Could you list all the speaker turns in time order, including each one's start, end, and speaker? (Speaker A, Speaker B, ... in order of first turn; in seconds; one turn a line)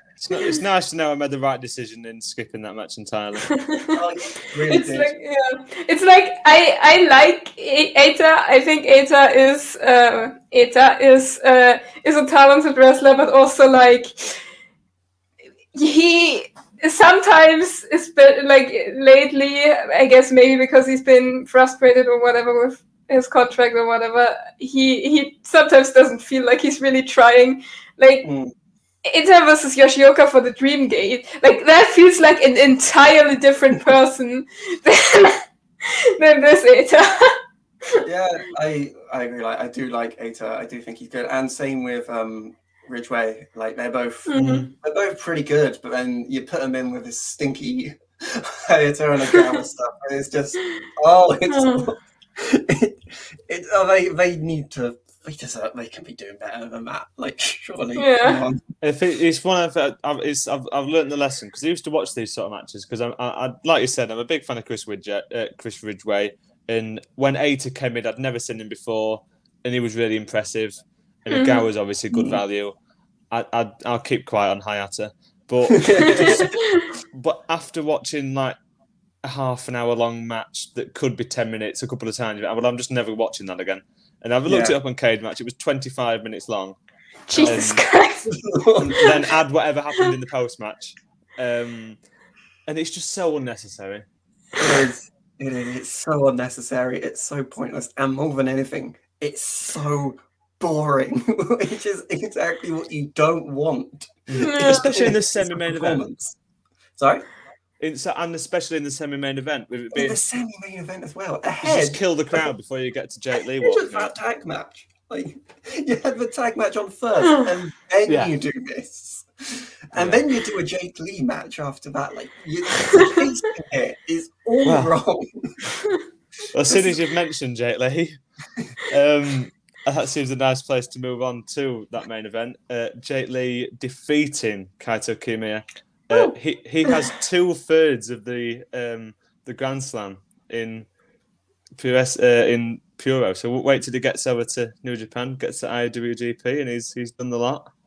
Speaker A: 0.2-3.5
Speaker B: 3.6-4.0
Speaker C: 3.9-5.2
Speaker B: 4.7-14.4
Speaker B: 15.7-28.3
Speaker C: 28.2-28.5
Speaker B: 29.1-37.4
Speaker C: 38.0-58.6
Speaker B: 44.3-44.7
Speaker A: 44.4-44.7
Speaker B: 51.5-51.9
Speaker B: 58.0-58.4
Speaker A: 58.8-72.8
Speaker B: 71.3-71.7
Speaker C: 72.1-72.4
Speaker A: 73.3-76.6
Speaker C: 75.7-76.5
Speaker B: 76.5-76.9
Speaker A: 77.1-78.6
Speaker A: 79.2-86.8
Speaker C: 84.5-84.8
Speaker B: 87.3-88.3
Speaker A: 87.4-87.8
Speaker C: 88.3-89.2
Speaker A: 88.8-92.0
Speaker A: 92.7-94.0
Speaker C: 94.6-106.4
Speaker A: 104.3-106.1
Speaker B: 104.4-104.9
Speaker C: 107.0-107.2
Speaker A: 107.8-110.2
Speaker C: 109.9-112.5
Speaker A: 111.6-114.1
Speaker C: 113.6-125.5
Speaker A: 118.1-118.4
Speaker A: 120.0-120.2
Speaker A: 124.7-124.9
Speaker A: 126.5-128.2
Speaker C: 126.7-127.0
Speaker A: 128.9-140.9
Speaker A: 141.8-147.7